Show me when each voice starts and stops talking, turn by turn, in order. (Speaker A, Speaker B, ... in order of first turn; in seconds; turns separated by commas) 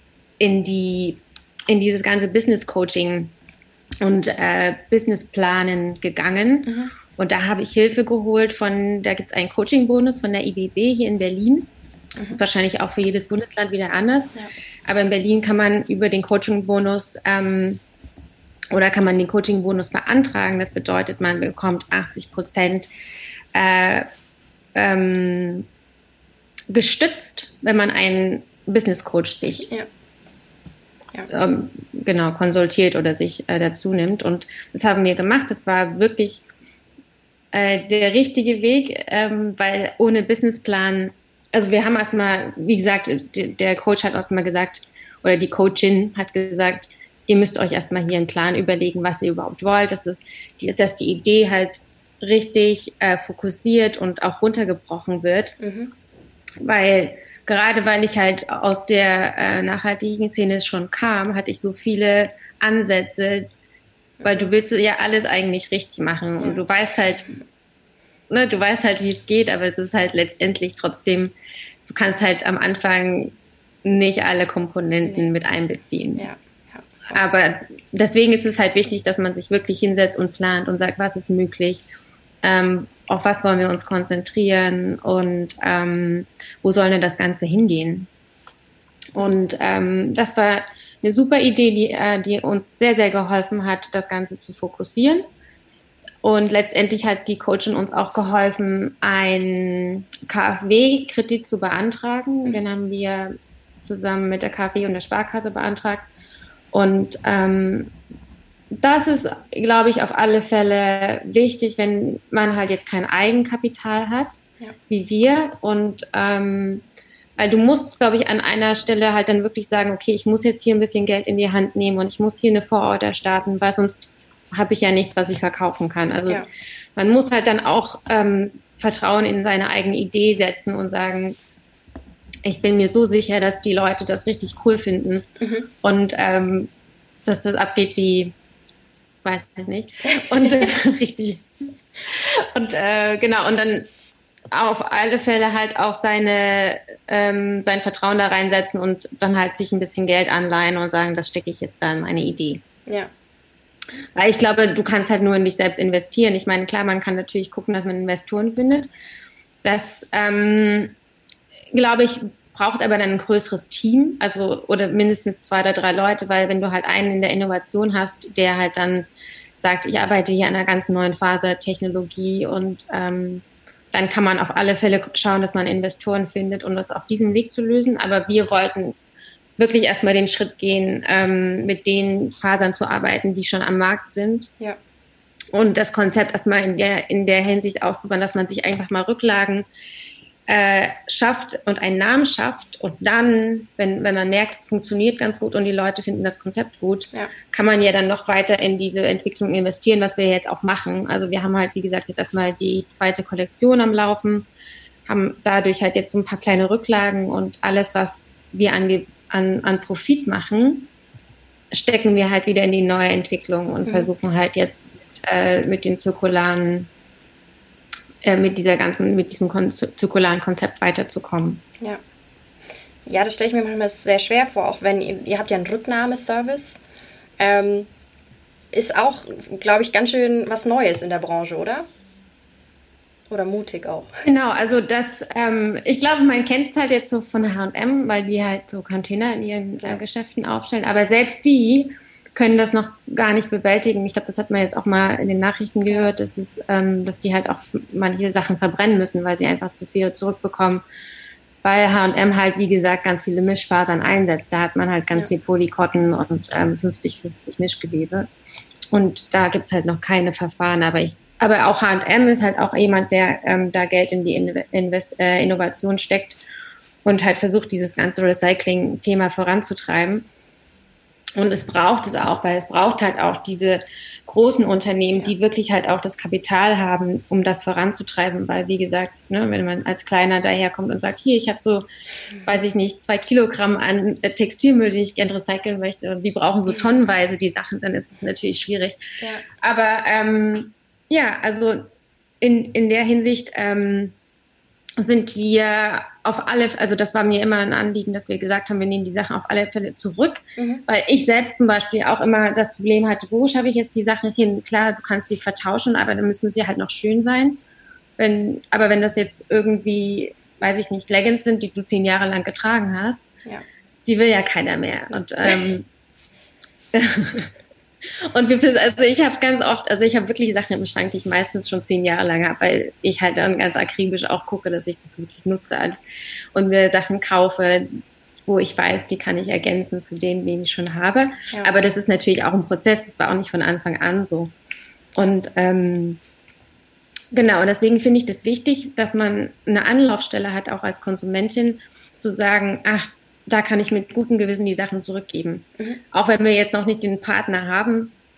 Speaker A: 0.4-3.3, Speaker A: 4.0-11.7, Speaker B: 6.7-6.9, Speaker A: 12.2-14.3, Speaker A: 14.9-17.8, Speaker A: 18.7-22.9, Speaker A: 23.5-24.1, Speaker A: 24.7-25.7, Speaker A: 26.7-29.7, Speaker A: 31.3-36.4, Speaker A: 37.5-55.6, Speaker B: 55.6-55.9, Speaker A: 56.6-63.5, Speaker B: 64.2-64.5, Speaker A: 64.2-67.4, Speaker A: 68.3-71.3, Speaker A: 71.9-76.3, Speaker B: 76.2-77.2, Speaker A: 77.1-81.8, Speaker A: 82.4-88.1, Speaker A: 89.1-95.2, Speaker A: 96.2-106.1, Speaker A: 106.7-107.9, Speaker A: 108.8-116.8, Speaker A: 117.4-126.5, Speaker A: 127.0-131.4, Speaker A: 132.4-135.2, Speaker B: 135.4-135.7, Speaker A: 135.8-136.7, Speaker A: 137.3-138.3, Speaker A: 139.2-141.5, Speaker A: 142.1-143.9, Speaker A: 144.5-152.6, Speaker A: 154.1-158.9, Speaker A: 159.6-160.9, Speaker A: 161.7-169.1, Speaker A: 169.6-178.9, Speaker A: 179.6-184.5, Speaker A: 185.5-189.6, Speaker A: 190.5-204.5, Speaker A: 205.1-210.9, Speaker A: 211.7-216.9, Speaker A: 218.2-221.6, Speaker B: 223.1-226.8, Speaker B: 227.4-227.9, Speaker B: 228.7-231.8, Speaker B: 233.3-234.2, Speaker A: 234.2-250.8, Speaker A: 251.6-258.3, Speaker A: 258.9-266.4, Speaker A: 267.0-270.3, Speaker A: 271.4-281.9, Speaker A: 282.4-289.0, Speaker A: 289.5-291.9, Speaker A: 292.4-294.1, Speaker A: 295.0-307.6, Speaker B: 300.6-300.8, Speaker A: 308.2-313.3, Speaker A: 314.1-315.9, Speaker A: 316.9-317.5, Speaker A: 318.3-326.0, Speaker A: 326.5-334.5, Speaker A: 335.1-336.2, Speaker A: 337.3-348.1